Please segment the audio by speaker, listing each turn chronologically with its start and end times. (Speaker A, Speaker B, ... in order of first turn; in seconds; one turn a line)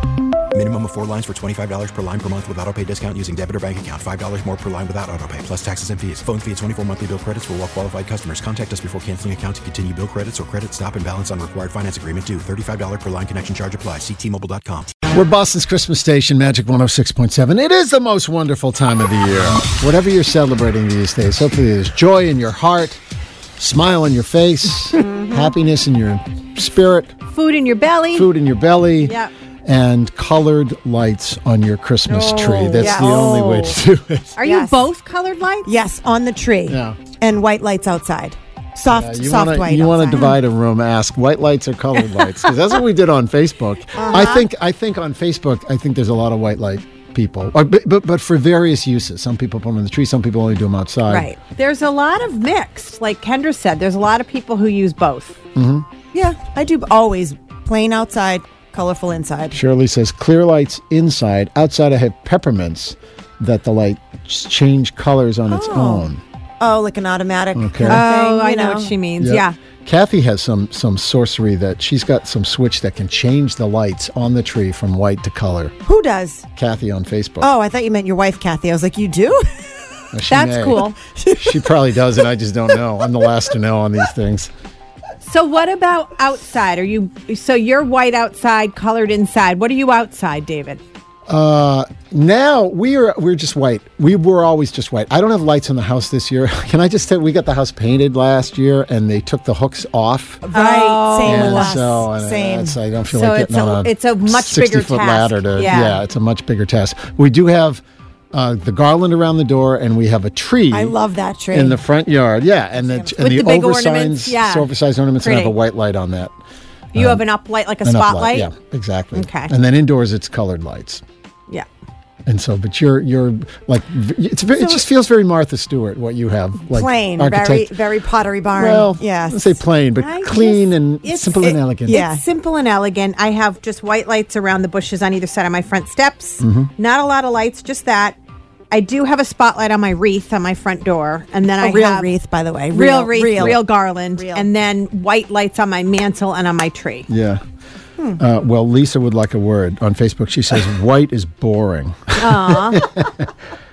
Speaker A: 0.5-14.9
Speaker B: 15.1-23.0
Speaker B: 23.6-27.1
Speaker C: 24.9-25.5
Speaker D: 27.3-28.3
Speaker B: 28.1-34.4
Speaker D: 29.0-29.3
Speaker D: 32.1-33.6
Speaker C: 32.8-33.7
Speaker D: 34.4-35.7
Speaker C: 34.4-34.9
Speaker C: 35.6-40.3
Speaker B: 36.7-37.0
Speaker B: 38.9-51.3
Speaker D: 42.0-42.8
Speaker C: 44.0-44.5
Speaker D: 51.1-55.4
Speaker B: 55.5-55.9
Speaker C: 56.1-59.6
Speaker B: 59.5-66.2
Speaker C: 65.5-68.9
Speaker B: 67.5-68.0
Speaker D: 67.8-69.5
Speaker B: 69.2-75.7
Speaker C: 75.8-76.4
Speaker B: 76.5-77.5
Speaker C: 77.4-79.8
Speaker B: 80.1-80.8
Speaker D: 80.3-81.0
Speaker C: 80.8-82.2
Speaker B: 81.4-84.5
Speaker D: 85.2-90.8
Speaker B: 91.3-100.4
Speaker C: 100.4-102.8
Speaker D: 100.5-101.7
Speaker B: 101.2-107.8
Speaker D: 103.1-106.0
Speaker B: 108.3-111.0
Speaker C: 110.7-111.8
Speaker B: 111.5-116.3
Speaker D: 113.2-115.6
Speaker B: 116.9-117.2
Speaker D: 116.9-118.5
Speaker B: 117.8-121.0
Speaker D: 119.1-119.5
Speaker B: 122.2-127.7
Speaker C: 124.5-124.8
Speaker C: 126.7-129.6
Speaker B: 128.6-132.0
Speaker D: 130.0-138.2
Speaker C: 131.5-132.2
Speaker B: 136.4-136.7
Speaker D: 138.7-142.1
Speaker C: 141.6-144.5
Speaker D: 142.7-147.1
Speaker B: 147.1-147.4
Speaker B: 148.2-153.3
Speaker D: 152.2-152.9